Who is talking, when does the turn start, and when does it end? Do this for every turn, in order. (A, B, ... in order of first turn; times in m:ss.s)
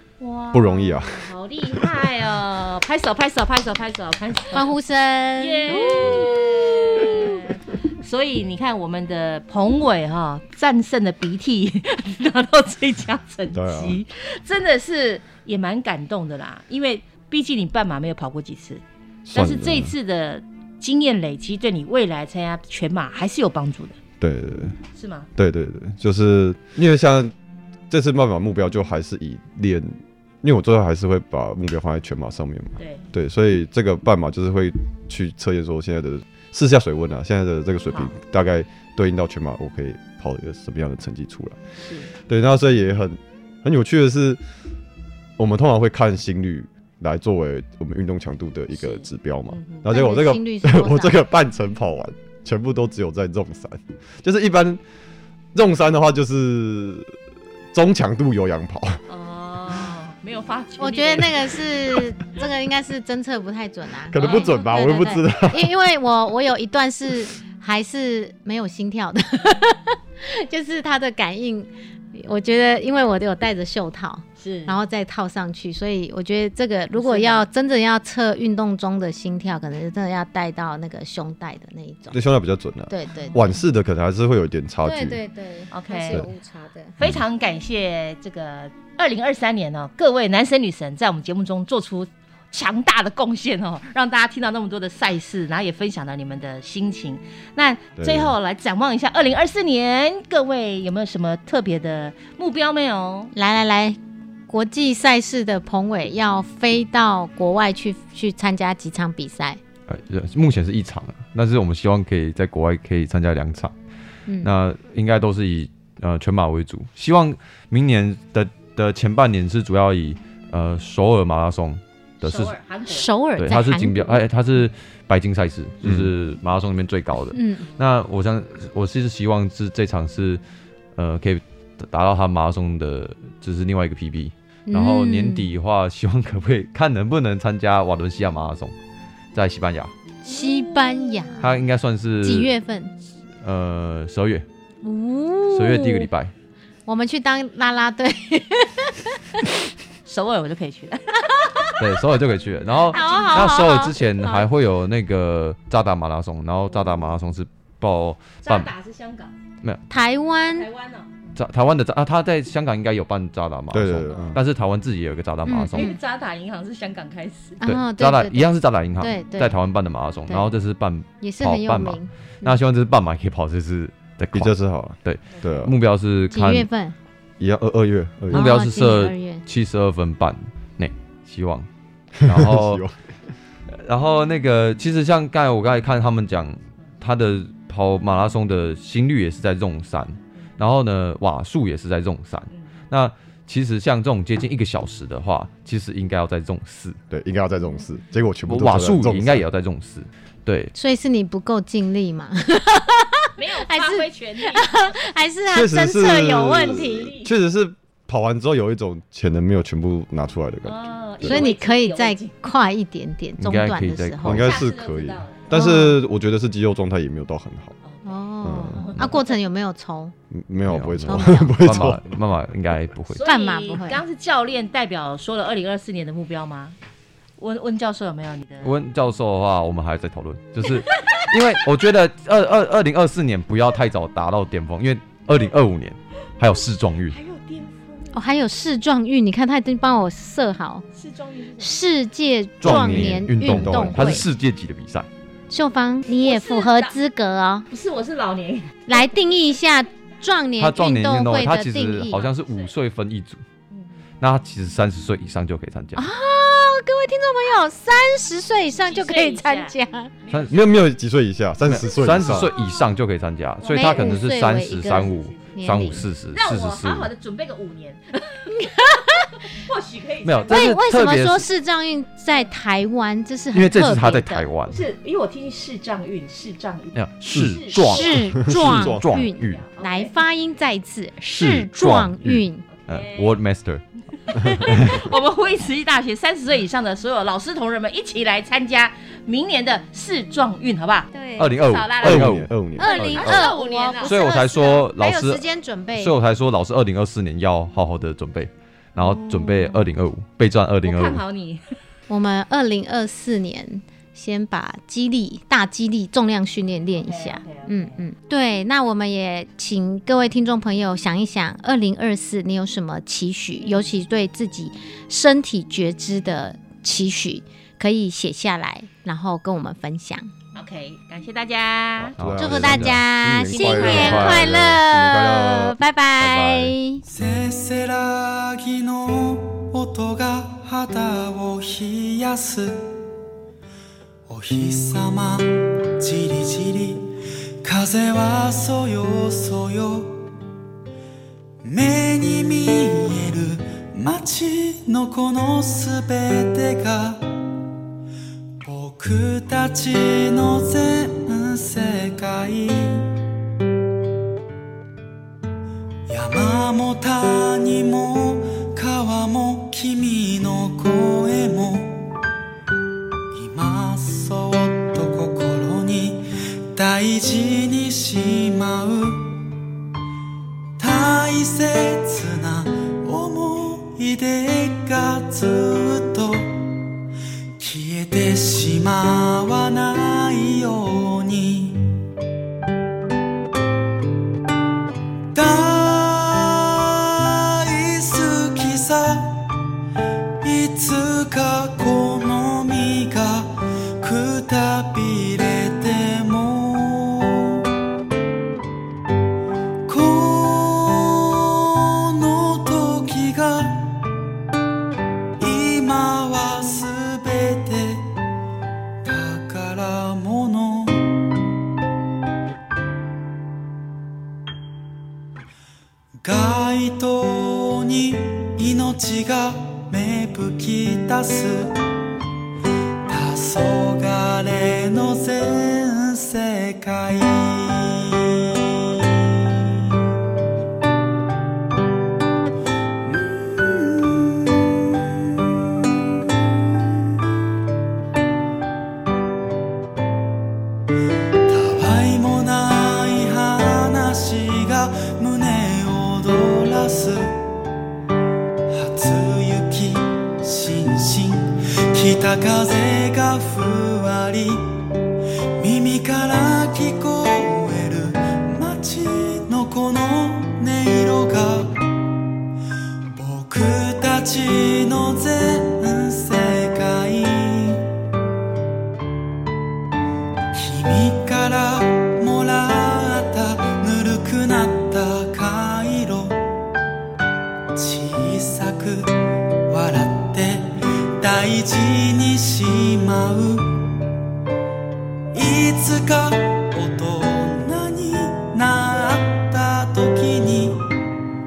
0:00.2-0:04.7 A
0:00.5-0:01.3 B
0:04.5-0:07.4 C
0:05.4-0:18.8 A
0:13.5-0:14.0 B
0:19.3-0:19.9 B
0:19.3-0:24.0 A
0:24.2-0:24.8 B
0:24.9-0:25.3 A
0:25.4-0:27.3 B
0:27.9-0:41.6 B
0:41.8-0:42.1 A
0:42.3-0:44.4 B
0:45.4-0:54.8 B
0:48.7-0:49.8 A
0:49.9-0:51.2 C
0:55.5-0:57.1 B
0:57.7-0:59.0 B
0:59.1-1:01.6 A
1:00.8-1:22.2 C
1:04.1-1:05.7 B
1:04.2-1:04.6 A
1:14.4-1:14.8 A
1:16.9-1:17.5 A
1:22.1-1:25.2 B
1:22.9-1:23.4 C
1:24.8-1:26.9 C
1:25.7-1:26.2 A
1:27.0-1:43.3 A
1:38.0-1:38.3 B
1:43.3-1:44.0 C
1:44.5-1:49.6 C
1:49.9-1:53.7 D
1:54.3-1:54.5 C
1:54.4-2:02.6 D
2:02.2-2:03.1 A
2:02.9-2:04.2 C
2:03.4-2:10.4 D
2:07.3-2:07.7 C
2:11.0-2:18.7 D
2:14.7-2:15.5 C
2:19.3-2:19.9 D
2:20.2-2:21.5 C
2:20.2-2:21.5 A
2:21.4-2:22.5 D
2:22.2-2:22.9 C
2:23.4-2:24.4 D
2:24.8-2:26.1 C
2:25.5-2:26.3 D
2:26.8-2:29.4 C
2:30.1-2:31.7 A
2:31.4-2:31.7 C
2:31.8-2:38.7 D
2:32.6-2:33.6 A
2:32.9-2:34.4 C
2:38.4-2:39.3 A
2:39.9-2:40.7 C
2:40.5-2:41.1 A
2:41.4-2:45.9 D
2:43.7-2:44.4 B
2:44.1-2:44.4 A
2:45.4-2:46.0 C
2:45.7-2:47.6 A
2:47.6-2:49.6 C
2:47.6-2:54.5 D
2:51.2-2:52.6 C
2:54.3-2:55.7 B
2:55.0-2:56.7 D
2:55.3-2:55.7 A
2:56.3-2:57.0 C
2:57.4-2:58.5 B
2:58.3-3:01.7 D
2:58.3-2:59.4 C
3:02.2-3:02.9 B
3:02.2-3:02.8 D
3:03.7-3:17.0 D
3:17.1-3:19.4 B
3:18.5-3:20.7 D
3:20.7-3:27.1 C
3:23.4-3:25.0 A
3:25.5-3:31.4 B
3:26.7-3:27.3 A
3:30.6-3:32.4 A
3:31.2-3:34.4 C
3:33.4-3:34.5 D
3:34.2-3:37.7 B
3:34.4-3:35.5 A
3:35.5-3:36.0 C
3:37.8-3:39.4 A
3:38.0-3:40.1 C
3:38.4-3:38.8 B
3:40.3-3:42.1 B
3:40.7-3:43.2 D
3:41.0-3:41.8 C
3:43.1-3:46.8 A
3:43.2-3:44.0 C
3:47.4-3:48.7 A
3:48.6-3:57.2 D
3:57.1-3:58.2 A
3:58.1-4:00.8 C
4:00.9-4:01.7 A
4:01.6-4:04.3 C
4:02.6-4:05.1 D
4:02.6-4:04.2 B
4:05.5-4:07.7 C
4:06.1-4:06.9 A
4:07.7-4:09.2 A
4:08.9-4:12.2 C
4:10.6-4:13.4 D
4:12.1-4:12.7 A
4:13.7-4:14.0 A
4:14.2-4:16.0 D
4:16.0-4:20.1 C
4:18.7-4:20.7 A
4:20.3-4:20.6 D
4:20.5-4:22.5 B
4:21.7-4:27.1 D
4:21.9-4:22.9 A
4:23.6-4:30.8 A
4:23.7-4:26.0 C
4:28.6-4:29.3 C
4:30.2-4:31.5 D
4:30.5-4:34.5 C
4:33.5-4:34.8 D
4:34.7-4:38.1 A
4:36.9-4:39.6 D
4:37.3-4:37.6 B
4:37.7-4:42.6 C
4:38.4-4:39.2 B
4:39.1-4:40.1 A
4:41.3-4:43.8 D
4:42.7-4:43.4 A
4:44.1-4:54.2 A
4:44.3-4:45.2 D
4:51.1-4:51.6 C
4:51.4-4:53.5 D
4:52.0-4:53.0 B
4:52.8-4:56.2 C
4:54.0-4:55.4 D
4:55.9-5:01.2 D
4:59.0-4:59.7 C
5:00.8-5:01.7 A
5:02.1-5:20.3 C
5:07.0-5:08.0 A
5:20.5-5:22.1 A
5:22.2-5:23.0 D
5:22.2-5:26.6 B
5:22.4-5:27.0 C
5:23.5-5:24.4 A
5:23.9-5:24.5 D
5:26.3-5:26.6 D
5:27.0-5:32.9 E
5:34.2-5:37.1 E
5:37.6-5:40.3 E
5:41.6-5:47.3 E
5:48.6-5:53.1 E
5:56.1-6:02.1 E
6:03.3-6:09.4 E
6:10.8-6:16.7 E
6:17.6-6:21.9 E
6:25.3-6:29.5 E
6:30.4-6:37.6 E
6:39.8-6:44.0 E
6:45.4-6:48.1 E
6:49.0-6:51.1 E
6:56.2-7:01.8 E
7:03.1-7:09.6 E
7:13.0-7:15.9 E
7:21.5-7:27.4 E
7:28.7-7:34.8 E
7:35.6-7:41.8 E
7:43.1-7:47.9 E
7:50.5-7:56.4 E
7:57.7-8:03.9 E
8:05.3-8:10.9 E